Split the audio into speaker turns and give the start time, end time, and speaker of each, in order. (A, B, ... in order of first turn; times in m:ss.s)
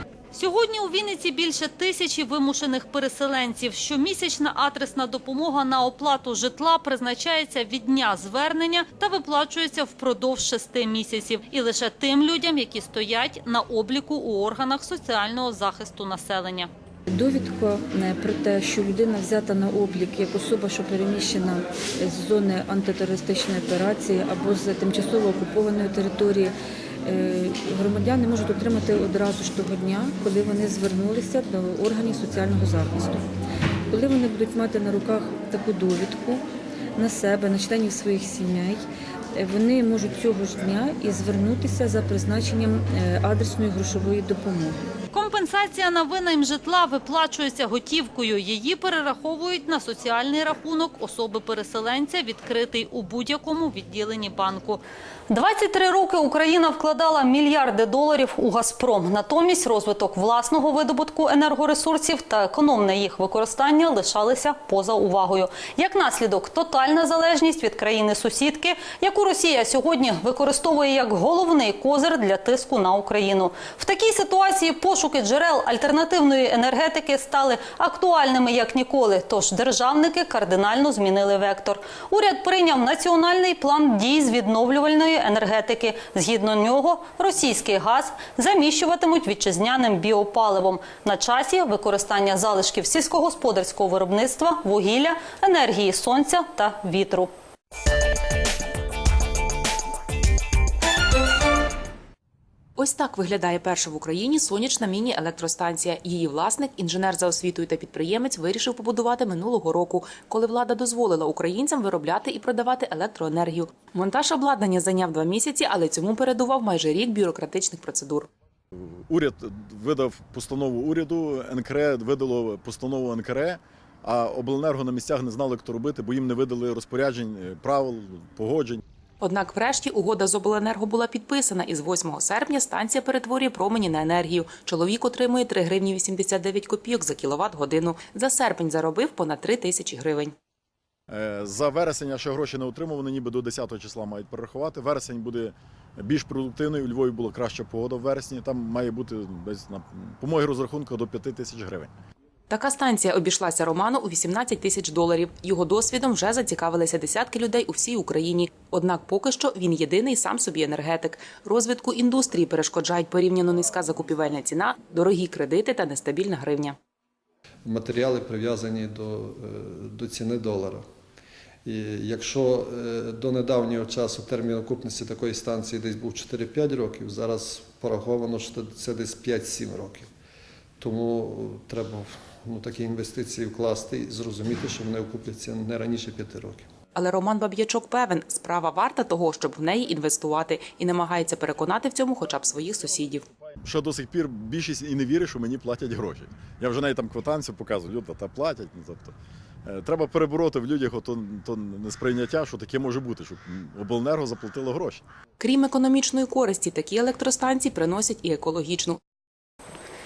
0:00.3-0:16.7 A
0:17.1-0:33.3 B
0:33.9-0:36.4 B
0:37.0-0:44.8 B
0:45.1-1:37.3 A
1:42.8-1:58.3 C
1:58.7-2:08.8 D
2:09.2-2:20.4 C
2:21.1-2:31.9 D
2:32.5-2:46.8 C
2:47.7-2:50.8 E
2:51.6-3:00.1 E
3:00.8-3:06.7 E
3:07.0-3:13.2 C
3:13.6-3:19.1 D
3:19.6-3:25.0 D
3:25.4-3:29.0 C